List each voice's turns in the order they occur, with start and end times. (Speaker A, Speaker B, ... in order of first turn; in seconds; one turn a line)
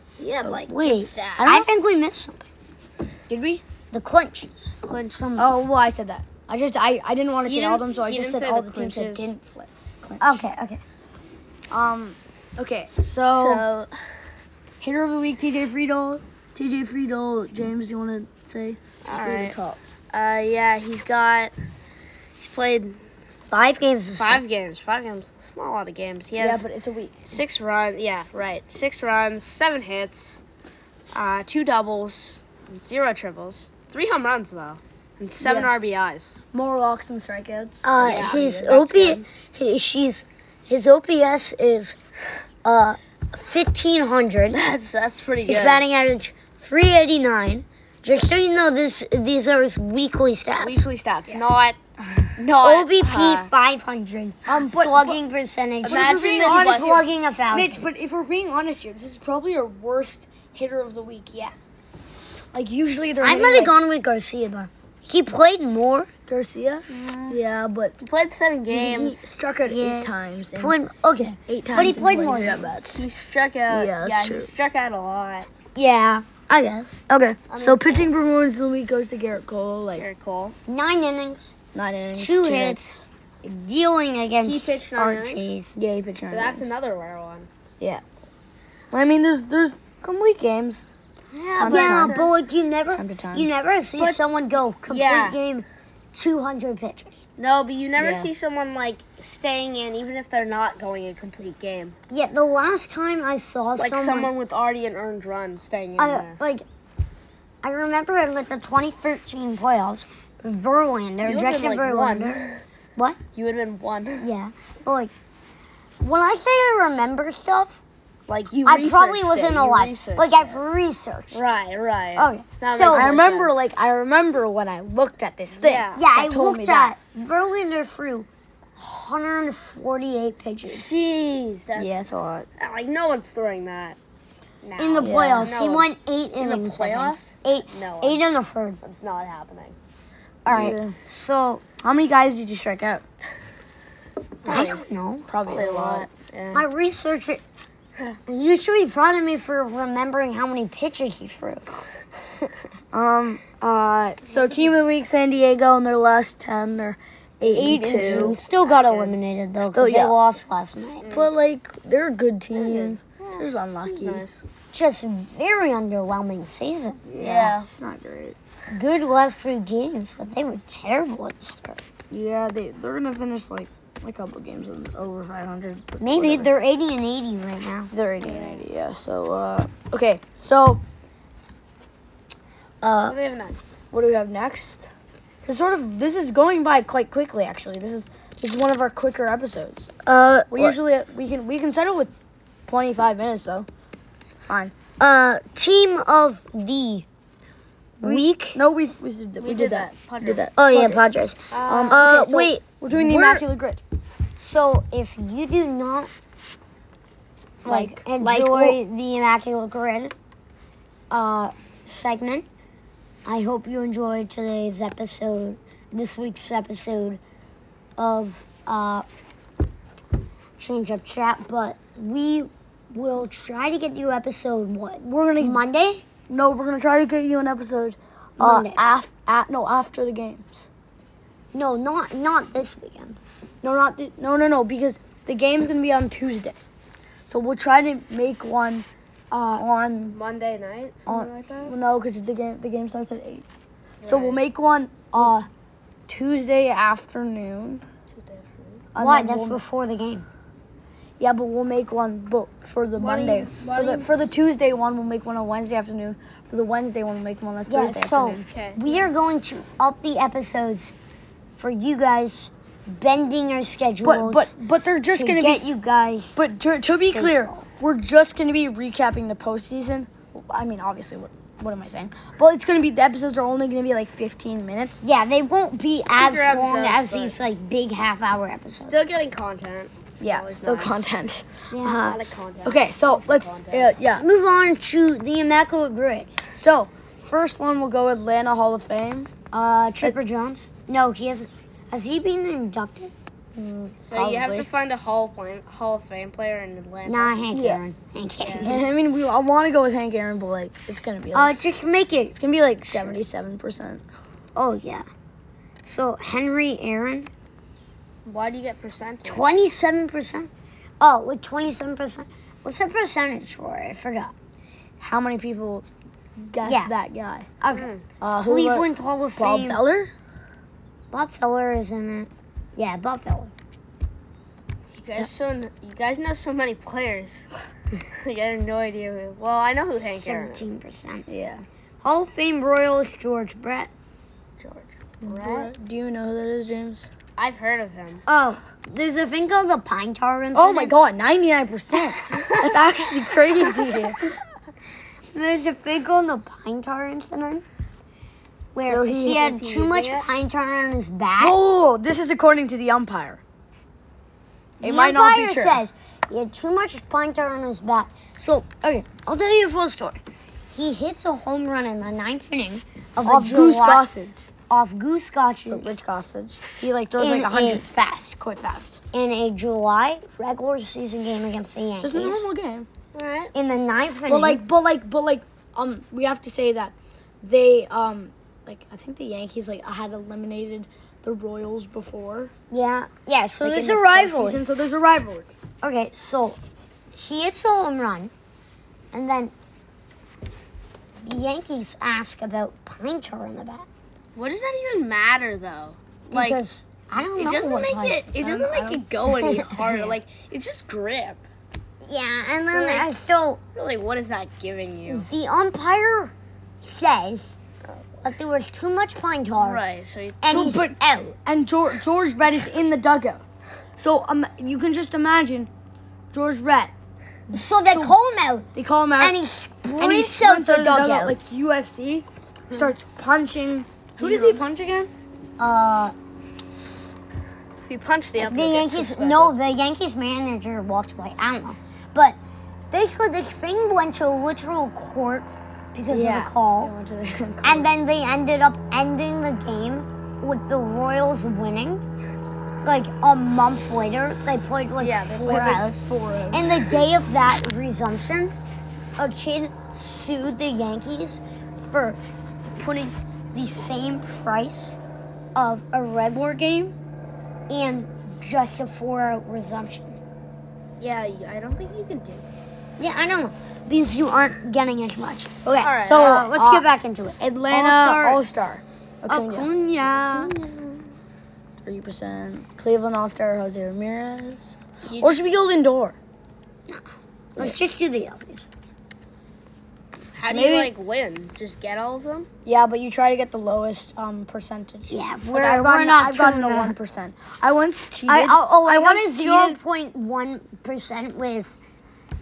Speaker A: 0.2-1.7
Speaker B: 0.6-2.5
Speaker C: 3.3-3.6
Speaker B: 3.9-5.5
Speaker A: 4.8-5.4
Speaker C: 5.4-10.4
Speaker A: 7.5-9.3
Speaker B: 10.2-10.8
Speaker C: 11.7-13.7
Speaker A: 13.3-13.9
Speaker C: 14.8-19.8
Speaker A: 19.0-19.6
Speaker A: 20.1-21.5
Speaker A: 22.4-23.0
Speaker B: 23.5-24.4
Speaker A: 24.2-26.6
Speaker C: 26.4-27.4
Speaker A: 27.3-30.4
Speaker A: 31.1-36.4
Speaker C: 35.4-35.7
Speaker C: 36.5-38.8
Speaker B: 37.8-42.0
Speaker A: 38.0-39.2
Speaker B: 42.6-44.6
Speaker A: 44.5-45.8
Speaker B: 45.4-50.9
Speaker A: 50.6-51.8
Speaker A: 52.4-53.5
Speaker B: 52.6-57.8
Speaker C: 54.5-55.2
Speaker C: 55.8-61.5
Speaker A: 55.8-57.0
Speaker C: 62.5-63.7
Speaker B: 63.2-66.1
Speaker C: 66.3-67.9
Speaker A: 68.0-69.3
Speaker C: 68.7-73.0
Speaker B: 69.7-72.7
Speaker A: 72.8-75.5
Speaker C: 73.7-74.5
Speaker B: 75.7-76.9
Speaker C: 76.9-80.1
Speaker A: 77.5-78.1
Speaker A: 80.0-80.5
Speaker B: 80.7-81.5
Speaker C: 81.7-83.0
Speaker B: 82.2-85.8
Speaker A: 84.4-85.5
Speaker C: 85.8-86.7
Speaker A: 86.2-87.5
Speaker C: 88.9-90.9
Speaker A: 91.3-92.3
Speaker C: 91.6-92.2
Speaker B: 91.6-97.2
Speaker C: 92.9-93.5
Speaker A: 94.9-95.4
Speaker A: 97.4-102.0
Speaker C: 98.0-98.3
Speaker B: 102.1-104.3
Speaker A: 103.8-106.4
Speaker B: 106.0-106.6
Speaker B: 107.6-112.4
Speaker A: 111.2-112.6
Speaker A: 113.3-114.3
Speaker B: 114.2-115.1
Speaker B: 116.0-117.8
Speaker A: 118.3-120.6
Speaker B: 118.6-121.4
Speaker A: 121.3-123.7
Speaker B: 122.2-123.1
Speaker C: 122.9-126.9
Speaker A: 125.6-126.0
Speaker B: 125.9-130.9
Speaker A: 130.6-132.1
Speaker C: 131.8-132.5
Speaker A: 132.6-134.0
Speaker A: 134.6-138.2
Speaker B: 134.8-138.8
Speaker C: 135.0-135.5
Speaker A: 138.8-139.8
Speaker B: 140.4-141.6
Speaker C: 140.5-140.9
Speaker C: 141.8-143.0
Speaker A: 144.4-144.8
Speaker B: 144.5-145.3
Speaker C: 145.3-146.1
Speaker A: 145.4-146.6
Speaker B: 146.5-147.4
Speaker B: 148.3-151.7
Speaker C: 152.9-158.4
Speaker A: 154.3-154.6
Speaker B: 157.4-161.1
Speaker A: 157.6-159.2
Speaker C: 159.6-160.3
Speaker A: 161.0-161.3
Speaker C: 161.1-164.2
Speaker A: 162.5-164.4
Speaker B: 164.7-167.4
Speaker A: 167.1-167.6
Speaker C: 167.2-168.4
Speaker B: 168.7-171.8
Speaker C: 172.1-176.5
Speaker B: 176.0-177.9
Speaker C: 177.9-180.8
Speaker A: 178.2-178.6
Speaker B: 182.8-183.1
Speaker A: 183.0-183.7
Speaker C: 183.9-184.9
Speaker C: 185.4-189.9
Speaker B: 190.0-190.8
Speaker C: 190.5-192.1
Speaker C: 192.7-193.7
Speaker C: 194.3-194.7
Speaker B: 195.0-197.1
Speaker B: 198.0-198.6
Speaker C: 198.0-201.0
Speaker A: 199.4-200.5
Speaker B: 200.6-203.4
Speaker A: 201.5-202.1
Speaker C: 201.6-203.8
Speaker B: 204.4-206.1
Speaker C: 207.6-208.8
Speaker B: 207.6-210.1
Speaker B: 211.1-212.4
Speaker B: 213.2-217.2
Speaker B: 218.0-219.0
Speaker B: 220.6-226.0
Speaker C: 225.0-225.6
Speaker C: 226.3-230.7
Speaker B: 228.4-228.8
Speaker B: 231.5-233.2
Speaker C: 233.6-236.6
Speaker C: 237.3-240.2
Speaker A: 240.1-241.7
Speaker C: 241.1-243.4
Speaker A: 244.0-244.4
Speaker C: 244.1-245.5
Speaker C: 246.1-247.8
Speaker A: 248.1-248.8
Speaker C: 248.9-249.6
Speaker B: 249.0-250.2
Speaker C: 251.2-258.5
Speaker A: 253.0-254.1
Speaker B: 257.7-260.9
Speaker A: 258.4-259.1
Speaker B: 261.6-264.5
Speaker C: 264.0-265.6
Speaker B: 265.1-266.4
Speaker C: 266.4-275.0
Speaker B: 267.1-267.6
Speaker B: 275.0-279.0
Speaker A: 276.2-277.4
Speaker A: 278.8-281.1
Speaker C: 280.2-284.2
Speaker B: 281.7-282.1
Speaker A: 281.9-283.9
Speaker B: 284.1-286.3
Speaker C: 286.5-289.3
Speaker B: 289.5-293.1
Speaker C: 293.6-294.7
Speaker A: 294.0-297.4
Speaker B: 297.1-298.8
Speaker C: 297.5-297.8
Speaker A: 298.4-298.7
Speaker C: 298.6-301.6
Speaker B: 301.3-303.2
Speaker C: 302.3-304.0
Speaker B: 304.5-305.1
Speaker B: 305.8-307.3
Speaker A: 308.2-309.5
Speaker B: 309.2-310.5
Speaker B: 311.0-314.3
Speaker C: 315.0-317.5
Speaker B: 316.6-316.9
Speaker B: 317.6-317.9
Speaker A: 317.7-318.1
Speaker C: 318.2-320.1
Speaker B: 318.4-319.8
Speaker B: 321.1-323.5
Speaker A: 324.9-327.4
Speaker A: 328.1-330.7
Speaker B: 329.9-331.3
Speaker C: 331.3-331.6
Speaker B: 332.0-333.9
Speaker A: 334.6-335.7
Speaker C: 335.2-337.1
Speaker A: 337.4-338.2
Speaker B: 338.2-340.9
Speaker C: 340.5-344.2
Speaker A: 342.4-342.6
Speaker B: 345.3-347.6
Speaker B: 348.7-351.6
Speaker C: 348.8-349.5
Speaker A: 349.3-350.3
Speaker C: 351.4-353.4
Speaker B: 354.8-360.2
Speaker C: 354.8-355.8
Speaker B: 360.7-364.0
Speaker C: 363.2-364.4
Speaker B: 364.7-365.9
Speaker C: 365.6-369.0
Speaker B: 367.2-367.8
Speaker B: 369.1-372.4
Speaker C: 372.0-372.9
Speaker A: 373.1-373.5
Speaker B: 373.5-374.6
Speaker C: 374.3-382.5
Speaker B: 382.7-384.6
Speaker C: 383.6-385.5
Speaker B: 385.8-386.6
Speaker B: 387.1-388.3
Speaker B: 389.1-389.5
Speaker B: 391.2-393.9
Speaker A: 394.3-396.6
Speaker B: 396.3-398.2
Speaker A: 397.4-401.4
Speaker C: 398.3-399.0
Speaker B: 399.3-400.2
Speaker B: 402.0-403.6
Speaker A: 402.6-403.2
Speaker A: 403.8-405.2
Speaker B: 405.1-407.6
Speaker B: 408.2-409.8
Speaker A: 409.6-410.4
Speaker B: 410.4-411.4
Speaker C: 410.5-413.4
Speaker C: 414.0-415.7
Speaker C: 416.3-416.9
Speaker B: 417.5-421.4
Speaker C: 417.6-418.1
Speaker C: 418.7-419.4
Speaker C: 419.9-424.7
Speaker A: 424.2-425.1
Speaker B: 425.6-426.1
Speaker A: 427.8-429.5
Speaker B: 428.4-432.4
Speaker B: 432.9-436.9
Speaker C: 436.1-437.9
Speaker B: 437.6-442.0
Speaker B: 442.8-448.5
Speaker C: 445.0-447.0
Speaker B: 449.2-454.9
Speaker B: 455.5-456.9
Speaker B: 457.7-460.2
Speaker A: 461.0-462.4
Speaker B: 463.0-465.5
Speaker C: 465.6-466.9
Speaker A: 465.8-466.5
Speaker B: 466.1-468.4
Speaker C: 467.4-469.7
Speaker B: 469.3-470.5
Speaker A: 470.3-471.0
Speaker C: 471.8-476.2
Speaker A: 475.1-475.4
Speaker B: 477.6-478.7
Speaker A: 480.4-482.5
Speaker C: 480.5-480.9
Speaker C: 482.6-489.8
Speaker B: 485.1-486.9
Speaker B: 488.3-491.7